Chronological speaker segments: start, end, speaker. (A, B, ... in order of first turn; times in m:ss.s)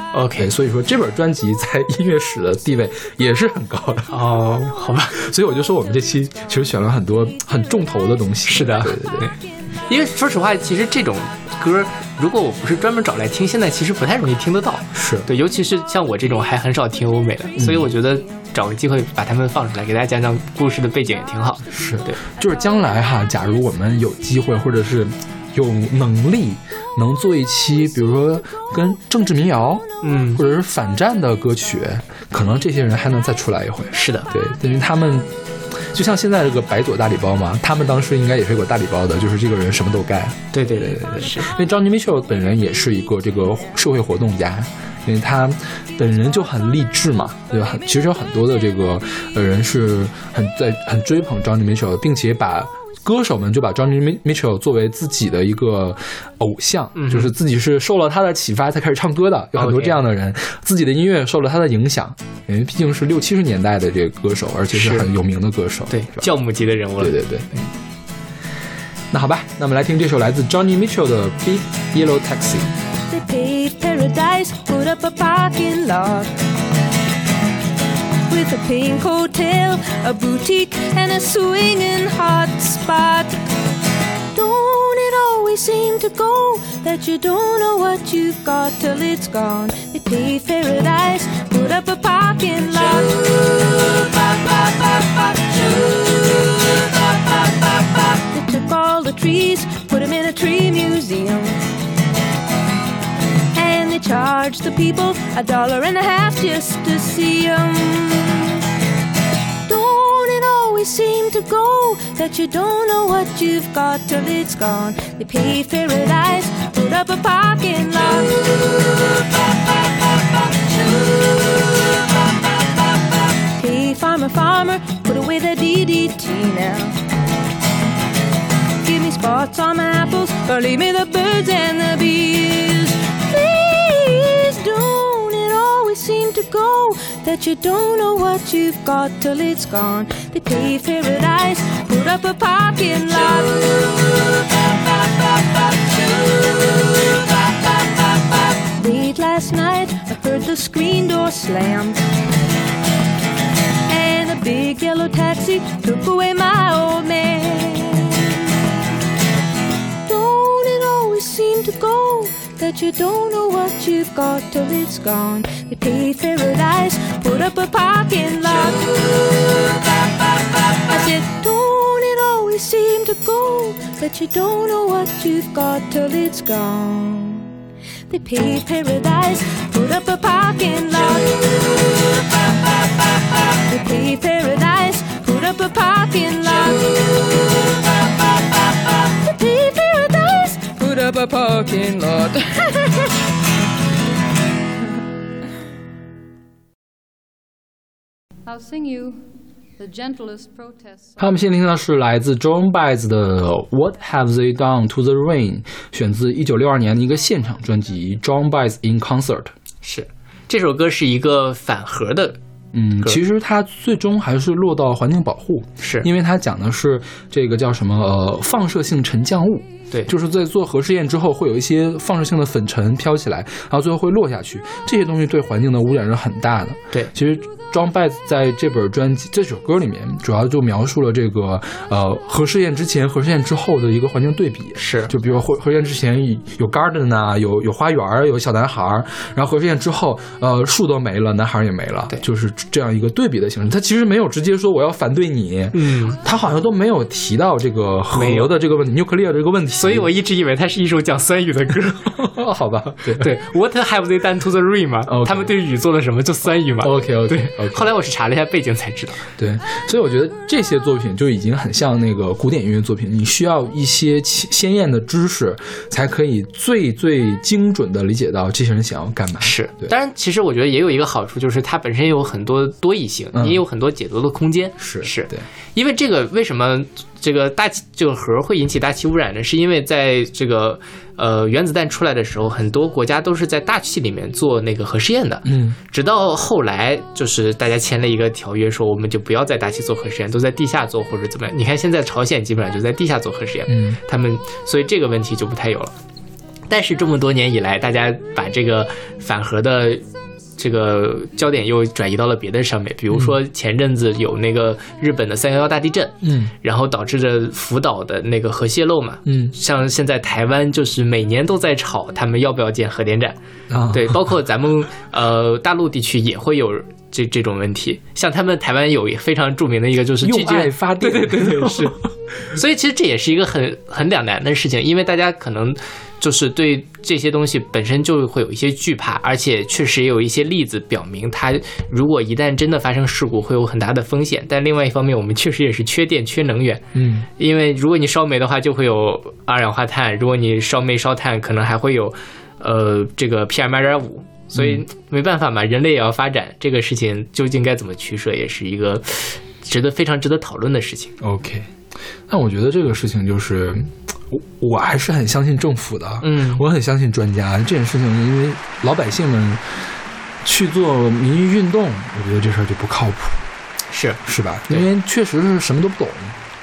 0:00.1-0:00.5 A
0:00.4-0:04.2 B
0:04.1-0:05.2 A
0:05.1-0:09.3 B
0:08.5-0:22.2 A
0:14.9-0:15.3 B
0:17.6-0:17.9 B
0:21.7-0:35.3 B
0:30.0-0:30.4 A
0:33.9-0:34.3 A
0:35.8-1:06.3 B
0:40.5-0:41.5 A
0:57.0-0:57.3 A
0:59.6-1:00.0 A
1:04.7-1:05.1 A
1:05.9-1:07.2 A
1:07.0-1:07.7 B
1:09.1-1:12.7 B
1:13.1-1:16.3 C
1:18.3-1:23.4 C
1:24.3-1:41.6 C
1:43.5-1:48.6 C
1:49.7-1:59.4 C
2:00.5-2:02.1 C
2:03.6-2:07.0 C
2:08.8-2:32.0 C
2:33.9-2:38.4 C
2:40.1-2:49.8 C
2:50.8-2:57.5 C
2:58.1-3:02.2 C
3:03.5-3:07.8 C
3:09.1-3:13.1 C
3:18.5-3:21.2 D
3:21.2-3:29.5 B
3:29.8-3:32.4 A
3:32.7-4:10.1 B
3:35.8-3:36.1 A
3:54.8-3:55.1 A
4:05.7-4:06.2 A
4:08.1-4:08.5 A
4:09.8-4:12.1 A
4:11.8-4:13.4 B
4:13.2-4:19.3 A
4:15.1-4:15.5 B
4:16.8-4:17.9 B
4:19.4-4:29.9 B
4:29.4-4:55.9 A
4:33.3-4:33.6 B
4:34.8-4:35.4 B
4:45.4-4:45.8 B
4:53.7-4:54.0 B
4:56.7-5:00.0 A
5:00.6-5:13.4 A
5:06.2-5:06.5 B
5:09.3-5:09.5 B
5:13.7-5:14.3 B
5:13.9-5:22.0 A
5:20.2-5:22.1 B
5:22.5-5:36.8 A
5:36.9-5:37.3 B
5:37.4-5:51.1 A
5:44.6-5:44.8 B
5:51.2-5:51.7 B
5:52.3-5:59.7 B
5:56.2-5:56.6 A
6:00.4-6:03.4 B
6:03.9-6:04.9 A
6:04.2-6:06.4 B